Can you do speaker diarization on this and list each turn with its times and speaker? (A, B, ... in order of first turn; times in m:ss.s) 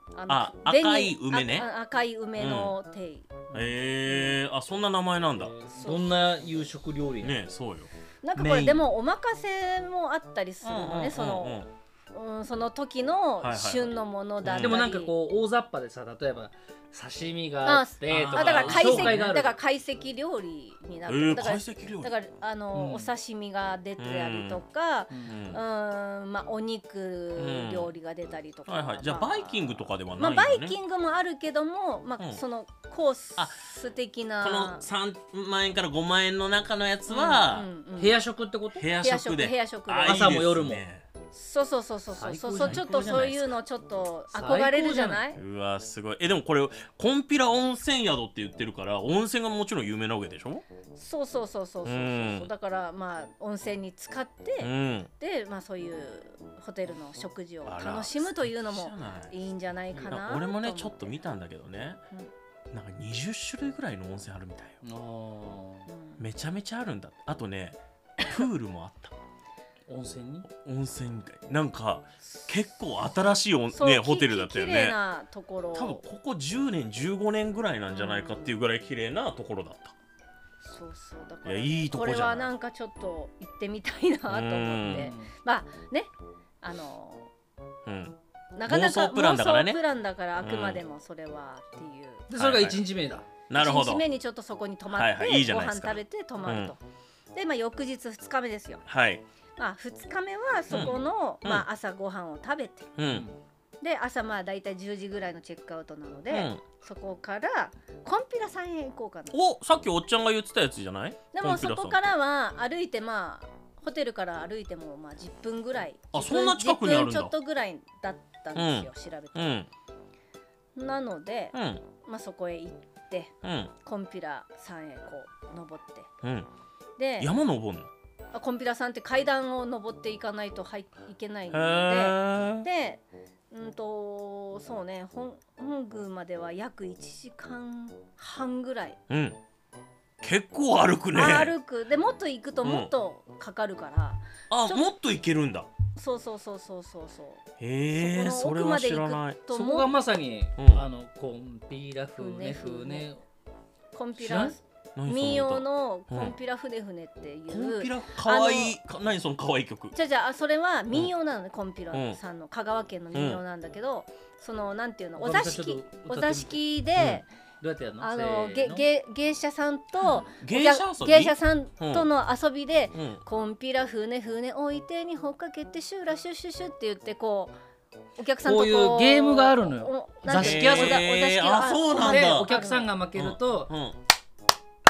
0:00.2-0:03.4 A
0:00.3-0:01.7 B
0:02.4-0:02.7 B
0:03.5-0:05.5 B
0:05.3-0:07.4 C
0:05.7-0:06.2 A
0:07.2-0:08.8 B
0:08.2-0:15.1 A
0:10.6-0:11.7 B
0:13.4-0:13.9 B
0:14.4-0:14.8 B
0:14.5-0:19.6 C
0:17.6-0:29.6 A
0:18.1-0:19.3 B
0:21.1-0:22.1 B
0:22.7-0:23.1 C
0:24.0-0:24.6 B
0:25.1-0:25.5 C
0:25.3-0:25.6 B
0:27.4-0:27.9 B
0:28.7-0:30.8 B
0:30.2-0:34.8 A
0:34.4-0:37.7 B
0:37.1-0:38.2 A
0:38.0-0:38.9 C
0:38.8-0:41.0 B
0:39.0-0:40.4 A
0:40.0-0:40.8 C
0:41.3-0:45.4 A
0:42.1-0:43.3 C
0:42.6-0:43.5 B
0:44.3-0:45.2 C
0:45.3-0:50.6 B
0:50.9-1:01.2 A
0:51.8-0:52.5 B
0:54.6-0:55.1 B
0:57.7-0:59.3 B
0:59.9-1:02.0 B
1:02.7-1:04.8 B
1:04.8-1:05.9 C
1:05.9-1:06.3 A
1:06.2-1:09.1 B
1:09.9-1:10.5 C
1:10.6-1:15.0 B
1:13.7-1:16.0 A
1:15.7-1:19.9 B
1:17.9-1:18.5 A
1:20.6-1:27.3 A
1:21.4-1:22.5 B
1:24.3-1:25.1 B
1:24.8-1:25.3 C
1:27.9-1:29.8 B
1:28.6-1:32.3 A
1:30.4-1:30.8 B
1:32.3-1:33.3 C
1:32.4-1:32.8 B
1:33.5-1:34.1 B
1:33.5-1:36.8 A
1:34.9-1:36.7 B
1:37.3-1:38.8 A
1:38.9-1:39.2 B
1:39.6-1:42.9 A
1:40.7-1:41.7 B
1:43.0-1:43.3 B
1:43.1-1:43.4 C
1:43.8-1:49.4 A
1:46.3-1:46.6 B
1:49.3-1:52.0 B
1:51.3-1:59.5 A
1:56.1-1:57.3 B
1:58.6-1:59.7 B
2:00.8-2:06.1 A
2:01.5-2:01.8 B
2:03.4-2:03.7 B
2:06.2-2:06.5 B
2:07.0-2:07.3 A
2:07.2-2:07.9 B
2:08.3-2:19.0 A
2:11.5-2:12.7 B
2:19.1-2:19.4 B
2:20.2-2:21.6 B
2:21.1-2:24.9 A
2:22.6-2:22.9 B
2:24.5-2:25.7 B
2:26.0-2:29.9 A
2:27.6-2:29.4 B
2:29.5-2:33.2 C
2:30.6-2:30.9 B
2:32.2-2:33.1 A
2:33.9-2:38.8 A
2:34.2-2:36.3 B
2:37.5-2:40.0 B
2:39.9-2:47.3 A
2:41.9-2:42.2 B
2:43.1-2:43.4 B
2:45.2-2:46.6 C
2:47.0-2:47.2 B
2:47.6-2:48.8 C
2:48.0-2:57.6 A
2:50.3-2:52.1 B
2:52.9-2:53.2 B
2:58.2-3:02.9 A
2:58.4-3:01.0 C
3:00.3-3:02.6 B
3:02.0-3:03.7 C
3:03.1-3:04.0 B